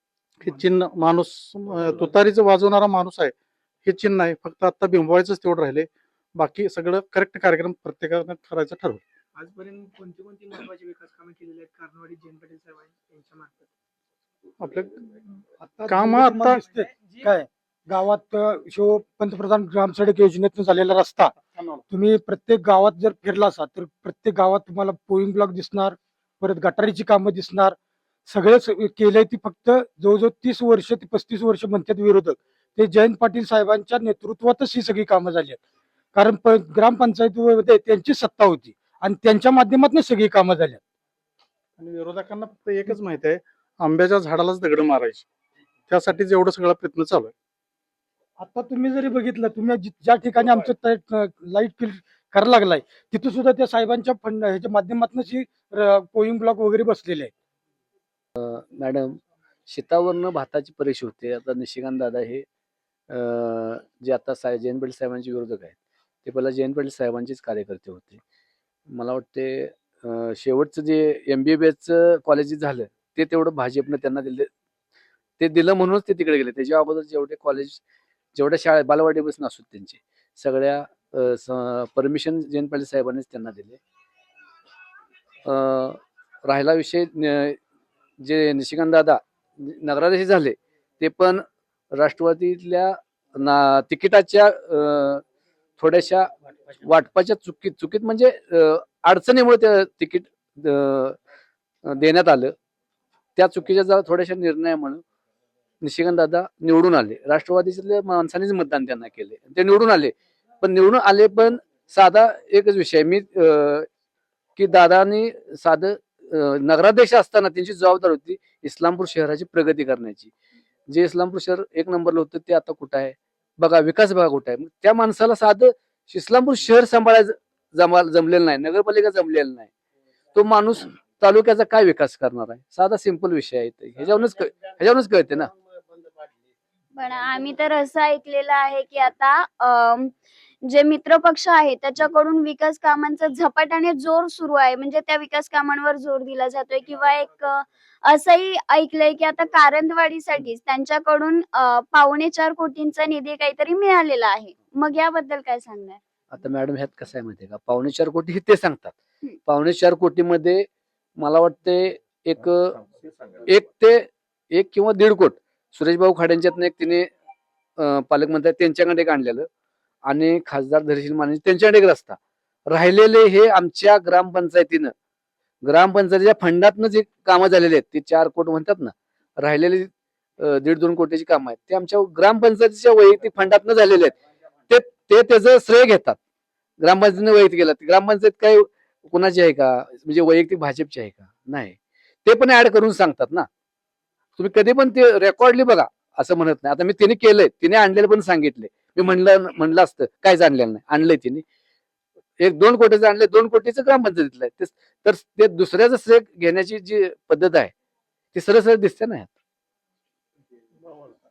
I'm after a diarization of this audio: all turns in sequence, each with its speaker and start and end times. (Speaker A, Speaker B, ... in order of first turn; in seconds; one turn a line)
Speaker A: 0.4-3.3
Speaker A: 3.9-9.0
Speaker B: 9.3-13.6
Speaker A: 14.6-15.0
Speaker C: 15.7-21.3
Speaker A: 15.8-16.6
Speaker B: 16.6-17.3
Speaker A: 21.4-21.8
Speaker C: 21.9-35.6
Speaker C: 36.1-40.8
Speaker A: 41.8-45.2
Speaker A: 45.9-47.3
Speaker C: 48.4-57.3
Speaker D: 58.4-62.4
Speaker D: 63.1-68.2
Speaker D: 68.9-74.5
Speaker D: 75.4-77.8
Speaker D: 78.3-83.8
Speaker D: 85.4-87.6
Speaker D: 88.2-95.2
Speaker D: 95.8-101.2
Speaker D: 101.8-102.5
Speaker D: 103.3-105.0
Speaker D: 105.8-113.9
Speaker D: 114.6-120.3
Speaker D: 120.9-129.7
Speaker D: 130.3-135.5
Speaker E: 136.9-140.1
Speaker E: 140.7-156.0
Speaker D: 156.3-158.9
Speaker D: 159.5-160.7
Speaker D: 161.2-162.7
Speaker D: 163.5-167.1
Speaker D: 167.8-169.5
Speaker D: 170.0-172.2
Speaker D: 172.7-174.9
Speaker D: 175.6-184.1
Speaker D: 184.7-186.2
Speaker D: 186.8-193.5
Speaker D: 194.4-201.4
Speaker D: 202.4-207.7
Speaker D: 208.3-209.3